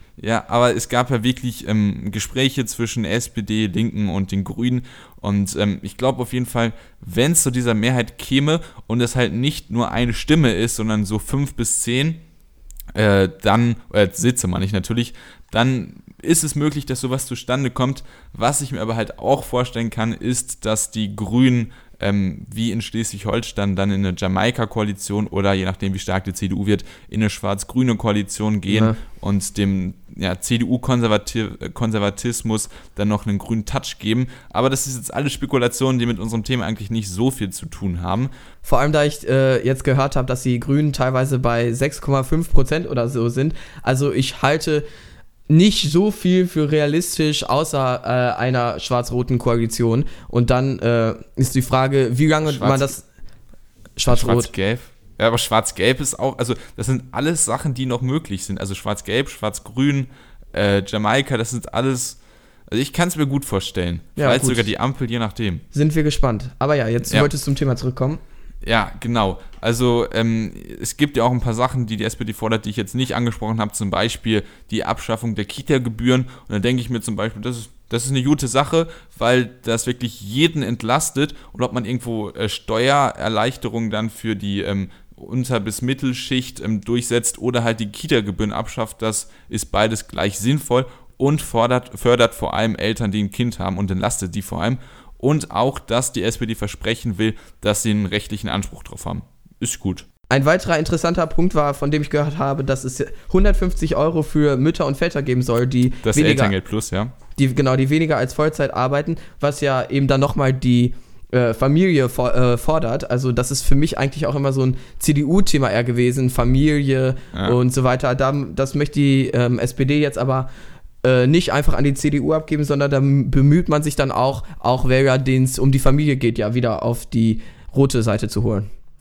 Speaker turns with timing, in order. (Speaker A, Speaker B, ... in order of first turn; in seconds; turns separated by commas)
Speaker A: 0.2-12.2, Speaker A: 12.9-38.3, Speaker B: 28.7-29.0, Speaker B: 38.6-44.9, Speaker B: 45.5-53.0, Speaker A: 52.4-53.0, Speaker B: 54.0-54.5, Speaker A: 54.1-65.6, Speaker B: 64.2-64.7, Speaker B: 65.7-68.2, Speaker A: 68.6-100.0, Speaker B: 100.3-106.5, Speaker A: 106.0-107.1, Speaker B: 107.4-120.5, Speaker B: 121.0-128.7